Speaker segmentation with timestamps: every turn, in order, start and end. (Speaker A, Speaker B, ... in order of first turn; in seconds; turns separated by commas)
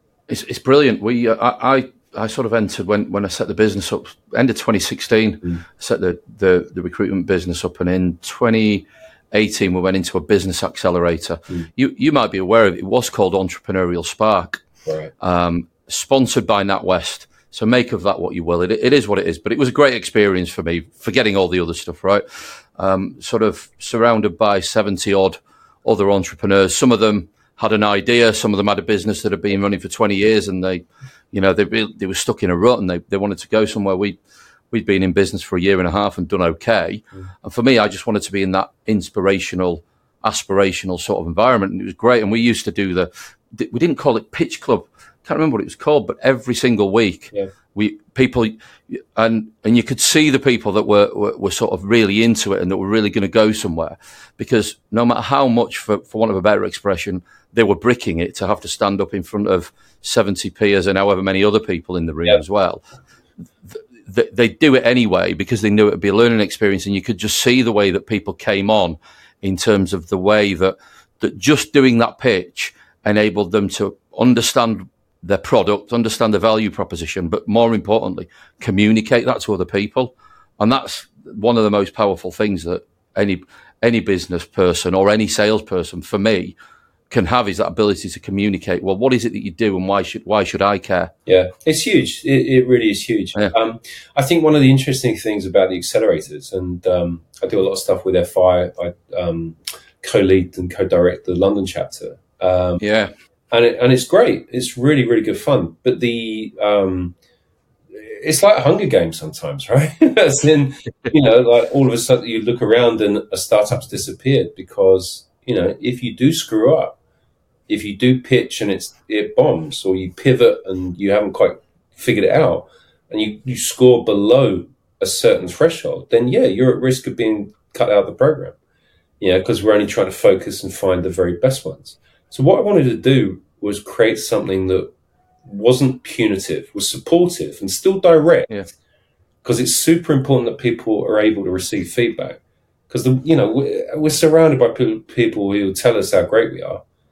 Speaker A: 0.3-14.6, Speaker B: 14.9-15.1, Speaker A: 15.2-34.2, Speaker A: 34.7-62.8, Speaker A: 63.7-86.6, Speaker A: 87.1-91.1, Speaker B: 91.3-102.8, Speaker A: 102.8-103.1, Speaker B: 103.5-107.2, Speaker B: 107.9-117.0, Speaker B: 117.7-128.6, Speaker B: 129.2-134.9, Speaker B: 135.4-138.5, Speaker B: 139.4-146.8